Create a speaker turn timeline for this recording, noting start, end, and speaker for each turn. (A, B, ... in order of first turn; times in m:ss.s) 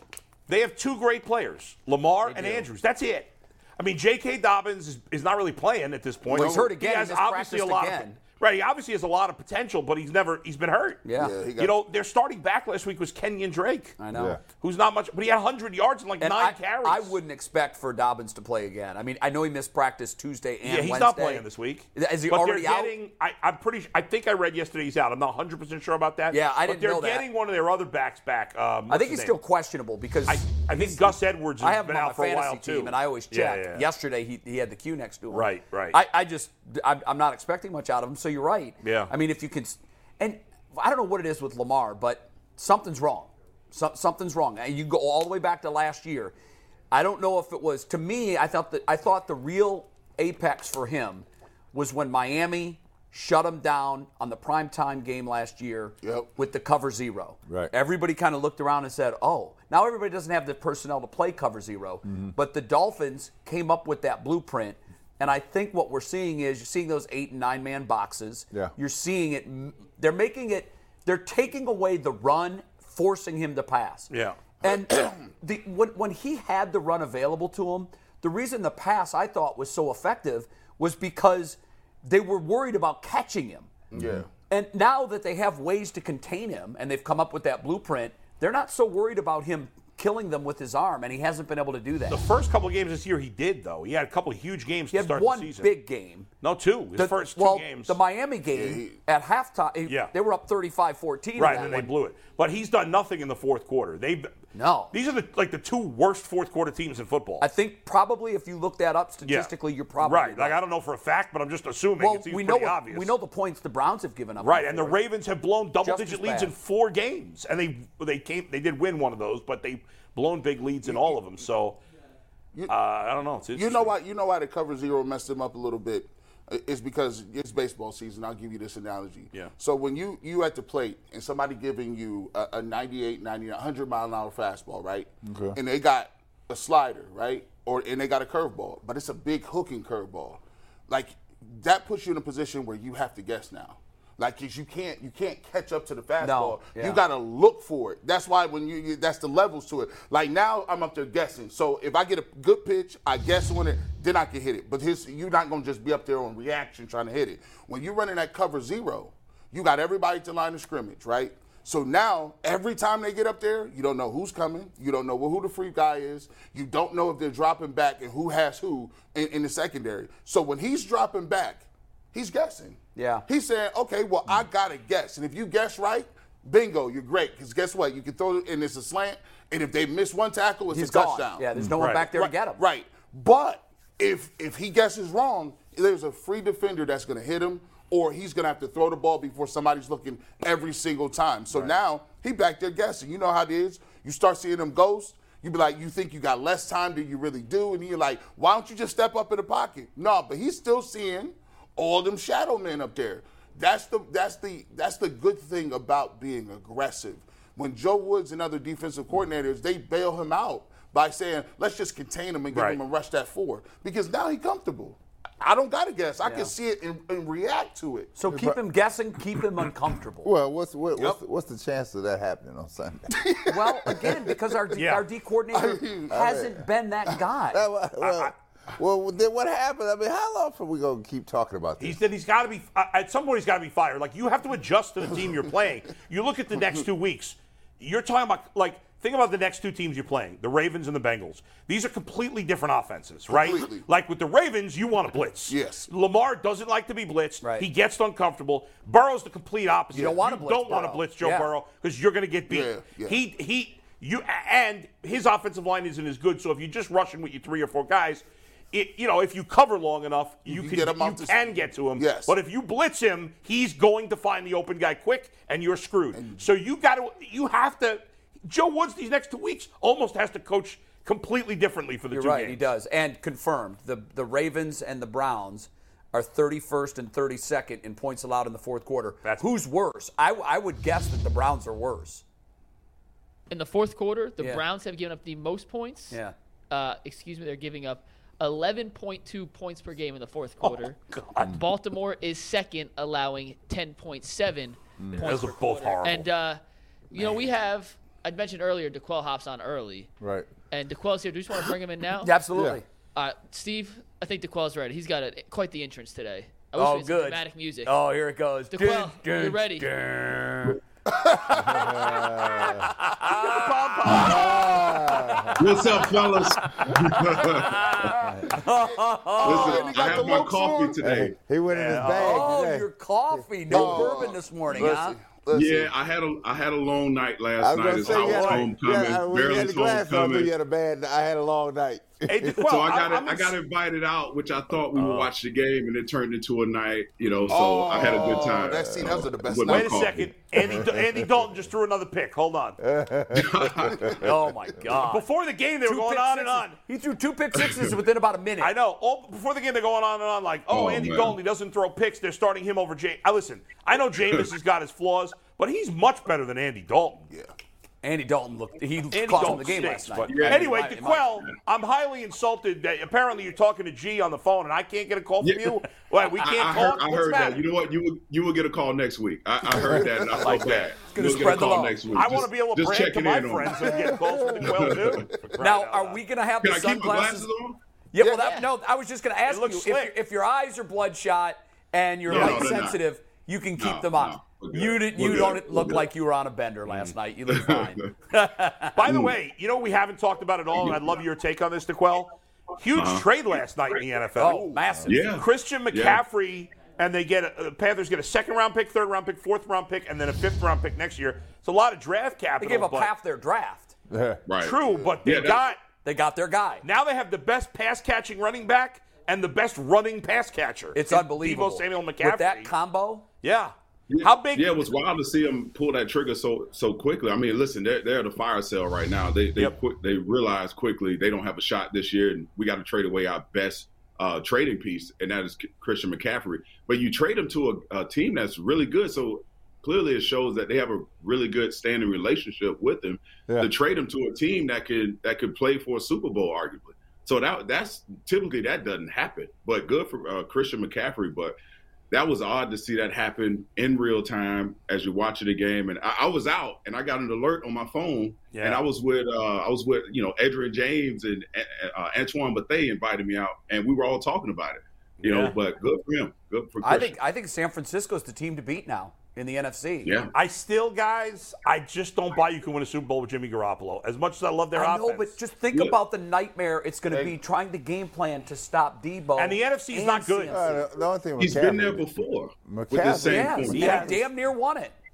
0:00.5-0:11.0 A
0:02.2-0:02.7 B
0:06.3-0:06.7 C
0:06.3-0:08.2 B
0:11.0-0:11.4 B
0:11.2-0:11.7 C
0:11.6-0:14.0 A
0:14.0-0:14.4 B
0:14.1-0:14.4 D
0:14.6-0:17.1 A
0:16.2-0:22.9 B
0:20.6-0:29.4 A
0:26.3-0:27.3 B
0:28.9-0:46.4 B
0:30.3-0:33.9 A
0:35.3-0:36.0 A
0:38.8-0:39.1 A
0:46.9-1:23.7 B
0:56.0-0:56.3 C
0:57.5-0:57.7 D
1:02.1-1:02.3 D
1:14.1-1:14.4 A
1:23.9-1:24.3 C
1:24.0-1:24.2 D
1:24.5-1:32.2 B
1:32.1-1:35.7 A
1:34.9-1:36.3 B
1:36.4-1:38.0 A
1:37.0-1:41.9 B
1:38.5-1:39.0 C
1:39.9-1:40.1 A
1:41.4-1:44.3 A
1:44.5-1:44.9 B
1:44.9-1:47.4 A
1:47.4-1:50.6 B
1:49.2-1:53.1 A
1:52.0-1:55.0 B
1:54.4-2:01.8 A
1:55.8-1:56.5 B
2:00.9-2:01.1 C
2:02.7-2:03.9 A
2:03.6-3:01.5 C
2:15.2-2:15.6 D
2:26.2-2:27.0 B
2:53.0-2:53.2 B
3:00.7-3:02.6 B
3:01.8-3:02.1 A
3:02.1-3:38.1 C
3:32.5-3:32.8 A
3:36.2-3:36.5 B
3:38.2-3:40.3 B
3:38.3-3:38.6 D
3:40.2-3:43.2 D
3:43.2-3:44.3 C
3:43.5-3:47.6 B
3:44.8-3:45.1 A
3:45.5-3:46.2 C
3:46.1-3:46.7 D
3:47.5-3:52.0 D
3:48.0-3:48.3 A
3:51.8-4:32.7 A
4:03.3-4:03.8 C
4:05.5-4:05.9 C
4:07.4-4:07.7 B
4:09.9-4:11.5 B
4:12.5-4:13.2 C
4:20.5-4:22.3 C
4:26.1-4:26.4 C
4:32.1-4:42.2 B
4:43.5-4:46.2 E
4:44.4-4:44.6 B
4:46.7-4:56.6 E
4:50.6-4:51.6 A
4:55.0-4:55.4 D
4:55.2-4:56.3 A
4:57.1-5:00.1 E
5:00.2-5:00.5 D
5:00.7-5:02.4 E
5:02.2-5:02.8 B
5:03.2-5:08.0 E
5:06.8-5:10.8 B
5:08.7-5:09.9 E
5:11.1-5:12.5 C
5:11.6-5:12.9 D
5:12.4-5:20.2 B
5:13.5-5:14.7 A
5:14.1-5:15.7 D
5:15.6-5:18.2 F
5:18.3-5:18.5 D
5:19.4-5:21.1 C
5:19.4-5:21.4 F
5:21.0-5:24.3 D
5:21.7-5:22.5 A
5:22.1-5:25.2 B
5:23.7-5:25.9 C
5:25.5-5:30.5 F
5:27.6-5:32.6 D
5:28.0-5:28.7 A
5:32.3-5:33.6 A
5:32.6-5:40.3 F
5:34.9-5:35.3 A
5:37.5-5:40.2 C
5:37.9-5:38.4 D
5:38.9-5:39.2 D
5:39.6-5:42.8 A
5:40.6-5:41.3 D
5:42.8-5:44.3 D
5:43.3-5:44.1 F
5:44.2-5:45.3 B
5:45.1-5:46.8 A
5:45.8-5:48.7 B
5:47.6-5:47.9 F
5:48.6-5:57.3 A
5:50.7-5:51.4 F
5:58.0-6:01.4 B
5:59.1-6:07.6 A
6:00.2-6:00.8 F
6:05.4-6:14.0 F
6:10.3-6:16.2 A
6:10.4-6:12.0 B
6:14.2-6:14.5 D
6:14.6-6:15.3 F
6:15.6-6:17.5 B
6:16.6-6:17.8 F
6:18.1-6:29.0 B
6:18.2-6:18.6 C
6:18.4-6:18.7 E
6:19.5-6:20.1 A
6:22.3-6:23.0 F
6:22.3-6:22.7 A
6:23.8-6:26.1 F
6:26.9-6:27.1 A
6:27.5-6:28.1 F
6:28.9-6:34.7 A
6:29.0-6:29.4 F
6:30.8-6:31.1 F
6:33.0-6:33.3 F
6:34.4-6:35.3 B
6:35.1-6:36.2 F
6:35.3-6:43.1 A
6:42.6-6:44.0 B
6:44.1-6:44.4 D
6:44.5-6:45.7 F
6:44.6-6:45.8 A
6:46.0-6:46.8 B
6:46.8-6:52.7 A
6:51.0-6:53.2 B
6:53.4-6:54.9 A
6:54.1-7:21.6 F
7:22.1-7:37.2 F
7:28.5-7:28.8 A
7:35.2-7:35.6 A
7:36.8-7:40.1 B
7:40.0-7:40.3 F
7:40.3-7:45.4 A
7:44.7-7:50.8 B
7:45.7-7:46.0 F
7:49.4-7:50.6 A
7:50.5-7:52.1 D
7:51.4-7:54.2 F
7:52.6-7:54.1 D
7:53.2-7:54.9 B
7:53.7-7:54.2 A